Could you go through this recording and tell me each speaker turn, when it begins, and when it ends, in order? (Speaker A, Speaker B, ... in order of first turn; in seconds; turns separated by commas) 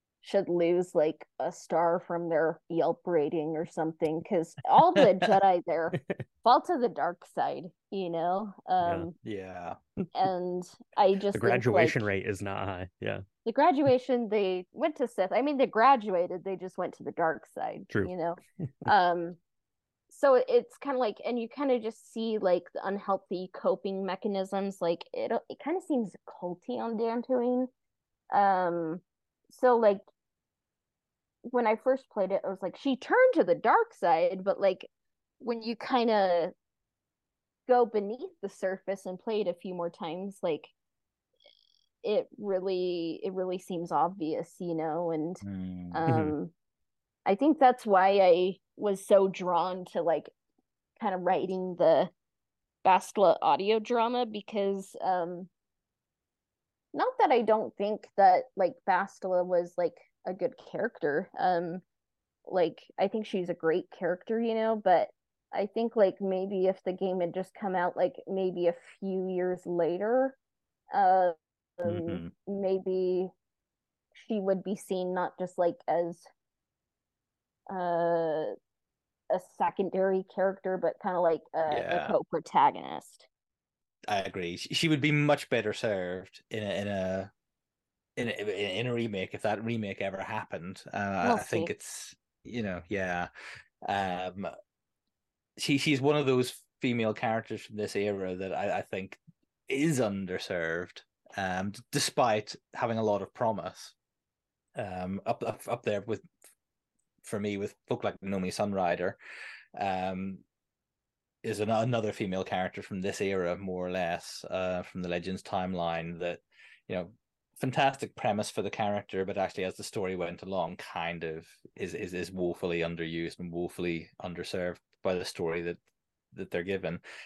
Speaker A: 0.2-9.2, Speaker B: 8.8-9.1, Speaker C: 9.2-9.8, Speaker A: 10.1-12.1, Speaker B: 11.3-13.2, Speaker A: 13.4-19.4, Speaker A: 20.1-27.7, Speaker A: 28.3-30.0, Speaker A: 31.5-34.9, Speaker A: 35.4-36.5, Speaker A: 37.7-40.7, Speaker A: 42.0-46.5, Speaker C: 45.4-46.0, Speaker B: 46.1-46.4, Speaker A: 47.3-50.3, Speaker A: 51.0-52.1, Speaker A: 52.8-55.5, Speaker A: 56.9-61.8, Speaker A: 62.5-70.4, Speaker A: 70.9-73.3, Speaker C: 71.8-72.3, Speaker A: 74.2-76.3, Speaker A: 77.7-78.5, Speaker A: 79.3-83.3, Speaker C: 81.7-82.2, Speaker C: 84.1-87.3, Speaker C: 88.2-93.3, Speaker A: 91.2-91.7, Speaker C: 93.9-94.5, Speaker C: 95.6-103.9, Speaker C: 104.8-106.3, Speaker C: 107.2-109.2, Speaker C: 109.7-110.4, Speaker C: 111.4-125.8, Speaker C: 126.3-127.0